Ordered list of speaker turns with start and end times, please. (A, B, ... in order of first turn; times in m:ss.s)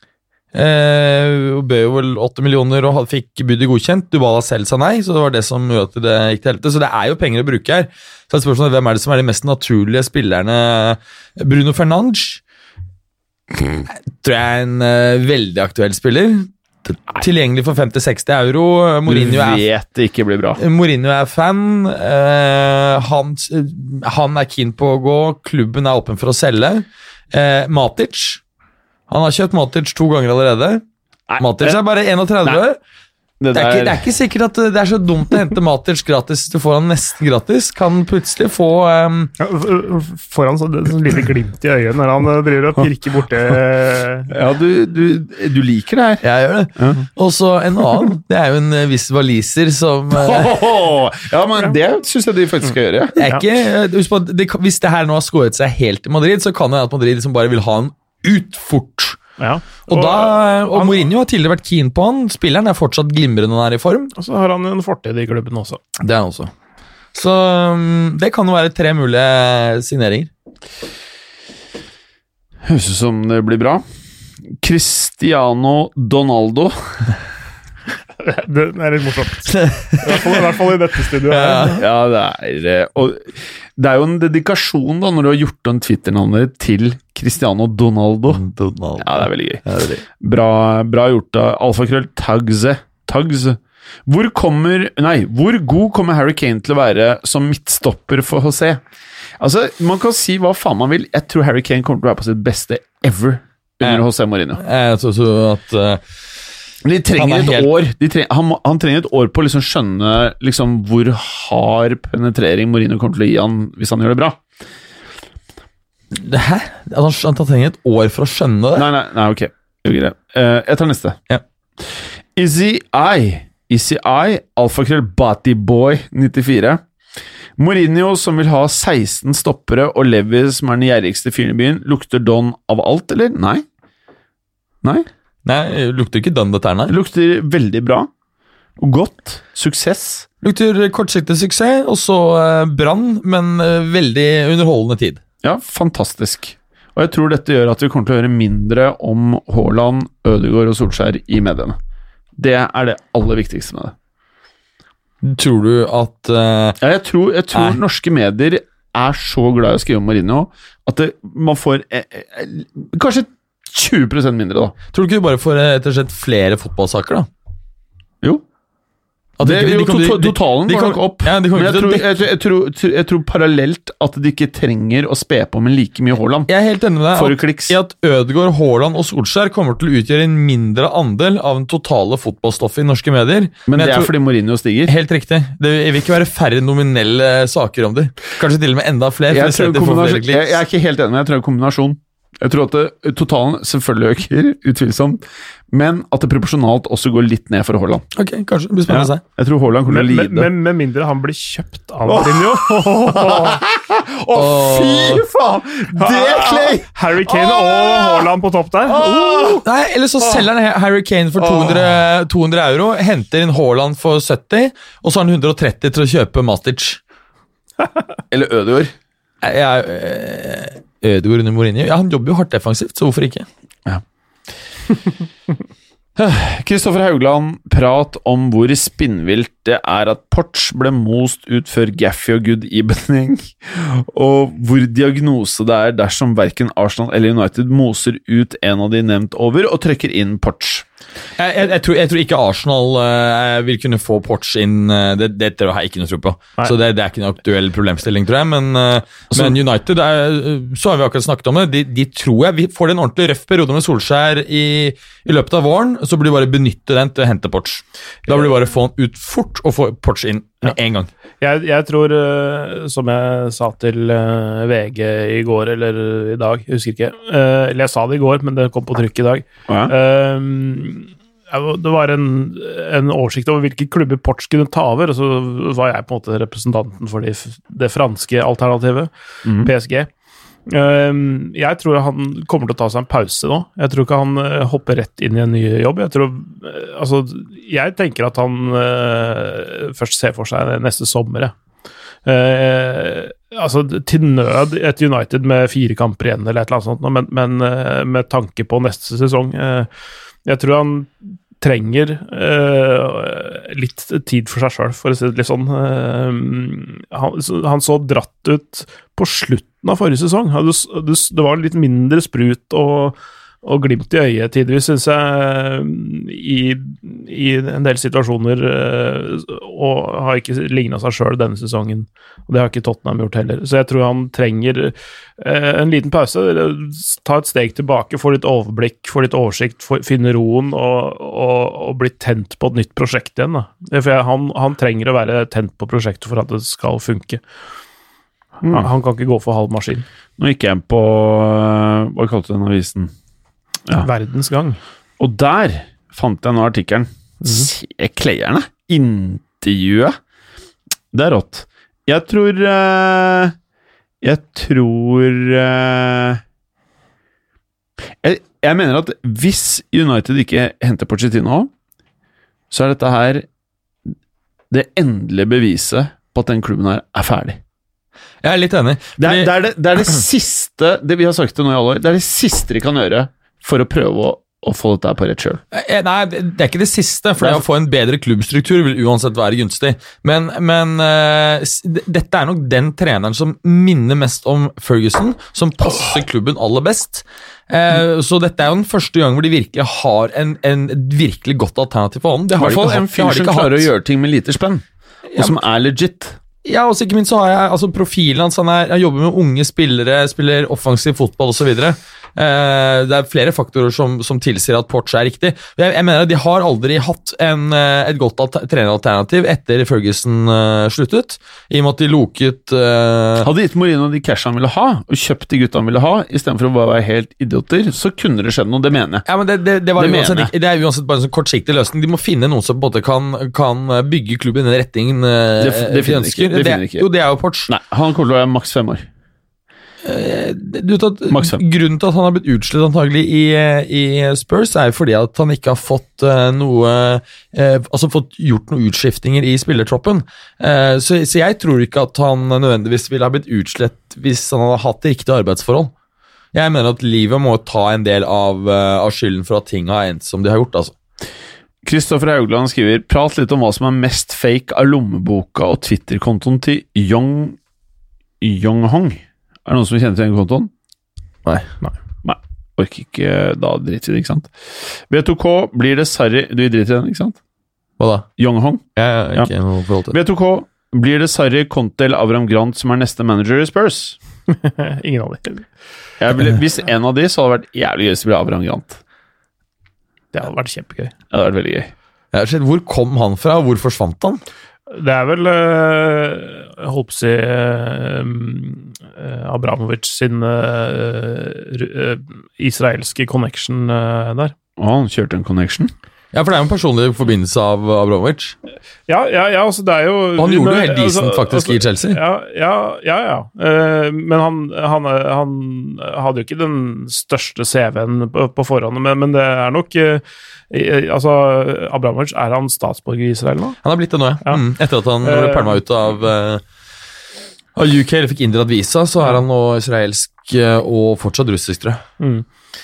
0:00.5-0:12.4 A
0:13.9-0:19.6 A
0:19.1-0:20.6 B
0:20.6-0:28.4 A
0:29.1-0:30.8 A
0:31.3-0:31.8 B
0:31.4-0:32.8 A
0:33.4-0:34.0 B
0:33.5-0:39.3 A
0:39.4-0:44.3 C
0:44.3-0:46.2 B
0:46.2-0:50.6 A
0:46.8-0:47.0 B
0:50.1-0:53.2 B
0:53.2-0:59.2 A
0:59.4-1:01.0 C
0:59.9-1:04.1 A
1:04.2-1:05.8 C
1:06.0-1:06.5 A
1:07.1-1:10.3 A
1:12.6-1:13.8 B
1:14.6-1:17.1 B
1:18.2-1:21.8 C
1:19.5-1:20.4 A
1:21.2-1:21.8 A
1:21.8-1:28.4 B
1:28.3-1:30.0 A
1:29.0-1:29.6 B
1:30.2-1:38.8 B
1:39.4-1:44.6 B
1:44.6-1:46.0 A
1:46.8-1:54.4 B
1:47.2-1:47.7 A
1:56.1-1:58.9 A
1:58.8-2:01.2 B
2:01.8-2:06.8 B
2:07.6-2:13.7 B
2:15.4-2:17.0 A
2:16.9-2:18.1 B
2:18.8-2:20.3 B
2:20.4-2:25.2 A
2:25.4-2:31.8 B
2:32.4-2:33.9 B
2:35.2-2:36.8 A
2:36.8-2:44.8 B
2:37.5-2:37.8 A
2:44.9-2:47.3 A
2:49.4-2:52.1 A
2:49.4-2:56.5 B
2:56.5-3:04.1 A
2:57.1-2:57.8 B
3:03.7-3:04.9 B
3:04.9-3:10.6 A
3:09.3-3:18.0 B
3:18.2-3:19.2 A
3:18.9-3:20.5 B
3:19.9-3:23.6 C
3:22.1-3:28.3 B
3:24.3-3:25.3 A
3:26.0-3:29.1 C
3:28.9-3:29.6 B
3:29.2-3:37.0 A
3:31.4-3:32.0 B
3:38.3-3:38.9 B
3:39.4-3:43.5 A
3:46.2-4:00.9 B
4:01.4-4:21.1 A
4:09.3-4:09.6 B
4:21.4-4:40.1 C
4:29.7-4:29.9 B
4:39.4-4:39.7 B
4:40.7-4:51.5 C
4:52.2-4:59.9 C
5:00.5-5:37.4 C
5:38.6-5:38.9 B
5:38.7-5:40.0 C
5:40.4-5:43.1 B
5:44.0-5:44.8 C
5:45.2-5:50.2 B
5:47.4-5:47.7 C
5:51.1-5:53.6 B
5:54.2-5:56.4 B
5:58.2-6:01.7 B
6:02.7-6:03.5 B
6:04.7-6:07.6 B
6:08.4-6:09.5 A
6:09.2-6:15.6 B
6:15.7-6:33.9 A
6:17.4-6:17.6 B
6:32.6-6:34.8 B
6:35.3-6:35.6 A
6:35.4-6:36.4 B
6:36.6-6:53.5 A
6:53.4-6:59.2 B
6:59.3-7:07.7 A
7:00.0-7:00.5 B
7:05.6-7:07.1 B
7:07.7-7:09.1 B
7:10.0-7:25.9 A
7:11.3-7:11.6 B
7:26.5-7:31.0 A
7:31.8-7:37.6 B
7:38.4-7:40.7 B
7:41.4-7:41.7 A
7:42.2-7:47.4 B
7:48.0-7:48.3 A
7:48.4-7:48.8 B
7:49.0-7:50.2 A
7:50.1-7:54.2 B
7:54.5-7:55.7 C
7:56.2-7:59.0 B
8:00.3-8:01.1 C
8:01.3-8:01.9 B
8:02.3-8:04.4 A
8:04.9-8:14.5 C
8:14.8-8:15.9 B
8:16.3-8:18.6 A
8:19.1-8:33.8 C
8:20.4-8:22.2 A
8:33.8-8:36.6 A
8:35.2-8:35.8 C
8:37.8-8:42.0 A
8:42.2-8:42.5 C